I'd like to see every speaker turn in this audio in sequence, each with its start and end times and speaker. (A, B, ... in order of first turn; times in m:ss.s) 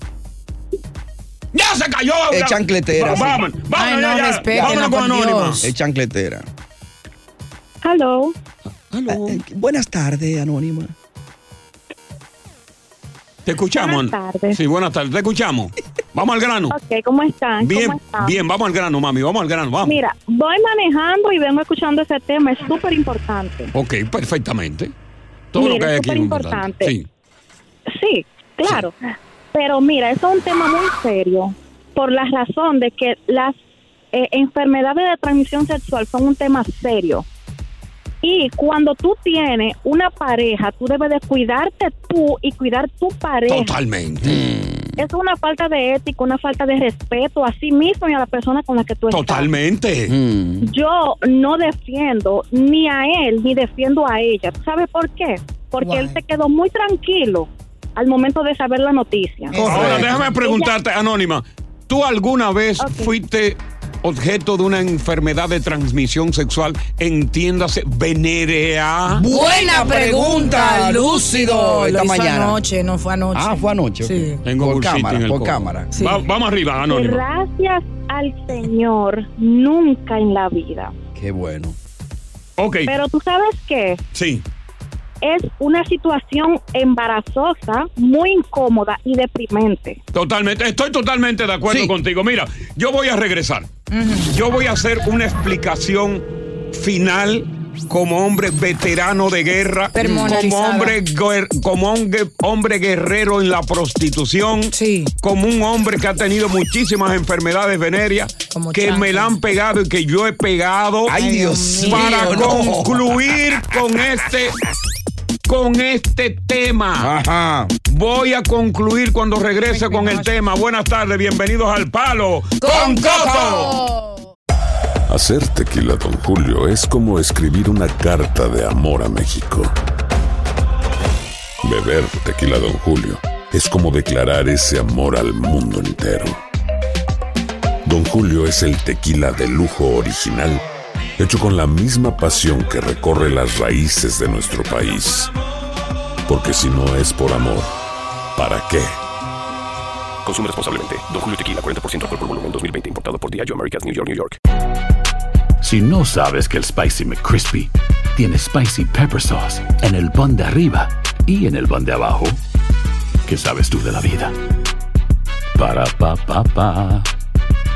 0:01.5-0:05.6 A
0:02.3-0:03.4 B
0:03.7-0:05.6 C
0:04.5-0:04.8 B
0:05.6-0:06.5 B
0:07.8-0:08.4 D
0:08.9-0:09.4 A
0:09.1-0:10.9 B
0:13.5-0:16.8 A
0:13.8-0:14.6 D
0:16.7-0:18.4 D
0:17.6-0:20.0 A
0:19.8-0:23.7 D
0:23.7-0:24.9 A
0:25.5-0:27.1 A
0:25.6-0:26.9 D
0:27.9-0:28.9 D
0:29.5-0:33.6 D
0:34.1-0:37.3 D
0:38.2-0:43.8 D
0:43.5-0:44.4 A
0:44.2-0:44.9 B
0:45.0-0:49.5 D
0:49.1-0:50.2 A
0:50.1-0:50.7 B
0:50.6-0:59.6 D
0:55.8-0:56.2 C
0:59.5-1:00.4 C
0:59.6-1:00.2 B
0:59.6-1:09.2 A
1:00.4-1:00.7 D
1:02.8-1:03.1 D
1:09.1-1:12.6 B
1:09.3-1:14.4 C
1:13.3-1:15.9 B
1:14.4-1:17.2 A
1:15.9-1:16.2 C
1:16.8-1:21.0 D
1:21.2-1:21.8 B
1:22.6-1:22.9 A
1:22.9-1:24.0 D
1:24.1-1:24.4 A
1:25.2-1:30.0 D
1:30.1-1:33.7 A
1:31.7-1:31.9 B
1:33.9-1:34.3 C
1:34.2-1:51.2 A
1:39.9-1:41.0 C
1:40.0-1:40.4 B
1:44.7-1:45.1 C
1:48.5-1:49.4 C
1:51.1-1:53.3 B
1:51.1-1:52.6 C
1:51.8-1:54.6 A
1:55.5-1:57.1 A
1:57.0-1:57.7 B
1:57.9-2:03.7 A
1:59.7-2:00.3 C
2:02.6-2:04.3 C
2:02.7-2:03.7 B
2:05.1-2:09.7 E
2:11.6-2:16.4 E
2:17.8-2:20.6 E
2:21.2-2:25.3 E
2:26.3-2:27.7 E
2:28.4-2:29.0 E
2:30.2-2:34.4 F
2:35.6-2:42.4 G
2:43.2-2:44.4 G
2:45.6-2:47.1 G